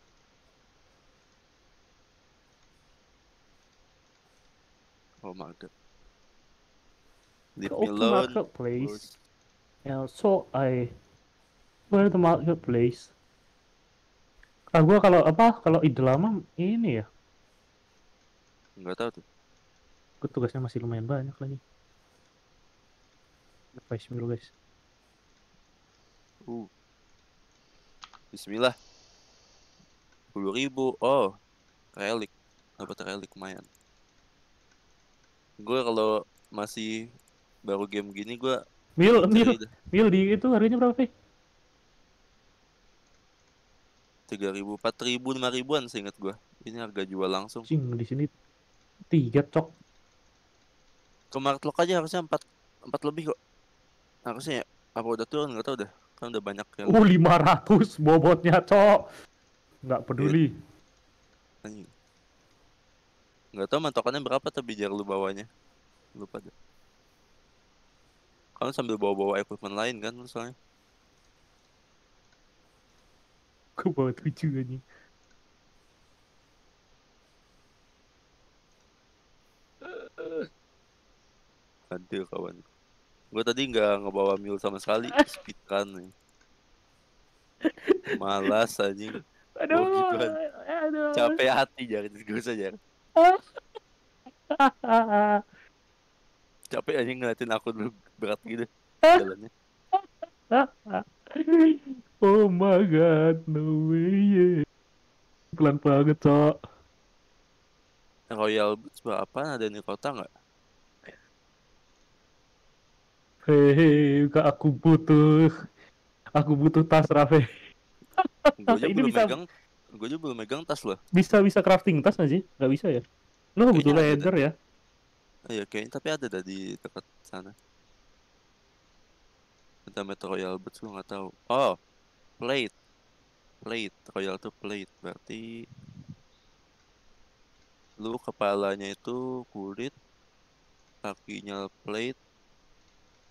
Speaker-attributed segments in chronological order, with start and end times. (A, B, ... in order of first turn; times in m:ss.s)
0:05.2-0:05.7 A
0:07.6-0:09.1 A
0:07.6-0:09.0 B
0:09.8-0:10.9 B
0:11.9-0:13.1 B
0:14.7-0:17.0 B
0:18.8-0:19.2 A
0:20.2-0:21.6 B
0:23.8-0:24.5 B
0:28.3-0:28.8 A
0:30.3-0:31.2 A
0:32.0-0:33.6 A
0:35.6-0:36.9 A
0:37.7-0:38.6 A
0:39.0-0:41.1 B
0:39.3-0:39.7 A
0:44.3-0:47.7 A
0:47.7-0:48.3 B
0:49.1-0:49.7 B
0:51.3-0:53.3 A
0:54.3-0:57.0 A
0:56.9-0:59.0 B
0:59.8-1:00.5 B
1:01.6-1:01.9 A
1:03.5-1:05.5 A
1:06.2-1:06.5 A
1:08.6-1:10.5 A
1:13.8-1:14.8 B
1:19.8-1:20.5 B
1:21.9-1:22.6 A
1:23.3-1:26.1 A
1:25.1-1:25.4 B
1:27.8-1:28.2 B
1:28.2-1:29.1 A
1:29.6-1:31.4 B
1:29.7-1:30.3 A
1:31.1-1:32.8 A
1:33.2-1:33.6 B
1:34.5-1:35.4 B
1:36.7-1:39.5 A
1:40.5-1:44.6 B
1:45.6-1:46.5 B
1:48.3-1:50.3 A
1:53.5-1:55.6 B
1:56.4-1:57.4 B
1:58.2-1:59.3 B
1:58.6-2:01.0 A
2:01.2-2:03.0 B
2:03.6-2:04.5 B
2:03.7-2:04.3 A
2:05.5-2:07.5 A
2:09.9-2:11.7 A
2:12.4-2:12.7 A
2:13.6-2:15.4 A
2:18.0-2:19.9 A
2:21.0-2:22.1 A